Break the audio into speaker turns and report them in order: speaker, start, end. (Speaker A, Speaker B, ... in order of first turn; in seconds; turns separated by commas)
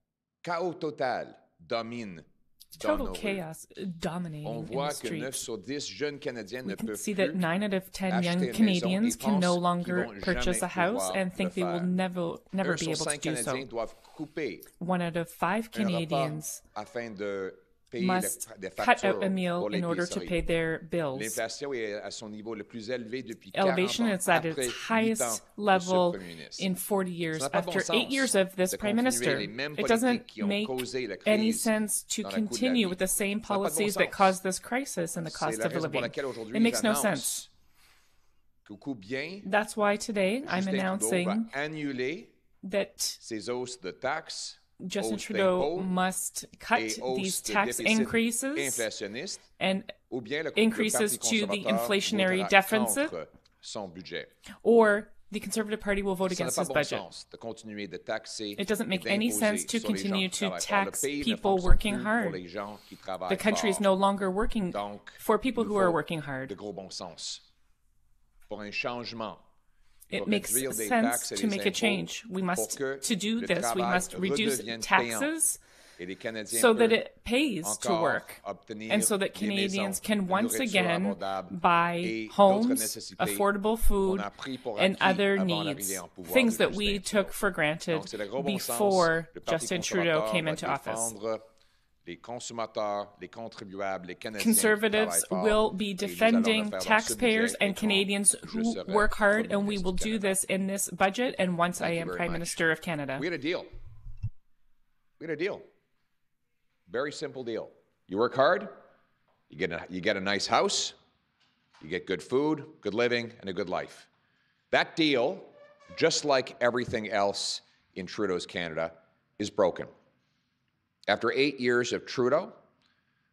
Speaker A: 0.4-3.4, Speaker B: 2.7-5.4, Speaker A: 4.4-7.4, Speaker B: 6.7-13.6, Speaker A: 8.1-11.9, Speaker A: 12.6-14.7, Speaker B: 14.8-16.6, Speaker A: 15.7-20.3, Speaker B: 18.0-21.4, Speaker A: 21.1-26.7, Speaker B: 23.5-37.3, Speaker A: 27.3-31.7, Speaker A: 32.2-34.3, Speaker A: 35.3-37.5, Speaker A: 38.6-39.5, Speaker B: 39.4-41.5, Speaker A: 40.5-42.3, Speaker B: 42.6-43.2, Speaker A: 43.2-46.0, Speaker B: 44.8-48.9, Speaker A: 46.7-49.5, Speaker B: 49.6-49.9, Speaker A: 50.1-54.3, Speaker B: 50.5-53.1, Speaker B: 54.6-57.0, Speaker A: 56.2-63.9, Speaker B: 58.6-62.4, Speaker B: 63.3-66.5, Speaker A: 64.7-67.4, Speaker A: 68.5-69.4, Speaker B: 70.1-75.6, Speaker A: 70.1-75.3, Speaker A: 76.0-77.0, Speaker B: 76.5-91.1, Speaker A: 77.6-83.5, Speaker A: 84.0-87.3, Speaker A: 87.9-91.4, Speaker A: 92.0-100.4, Speaker B: 94.4-103.2, Speaker A: 101.8-103.7, Speaker A: 105.2-105.6, Speaker A: 106.9-108.8, Speaker A: 109.5-111.0, Speaker A: 111.8-114.1, Speaker A: 114.7-119.9, Speaker A: 121.1-122.6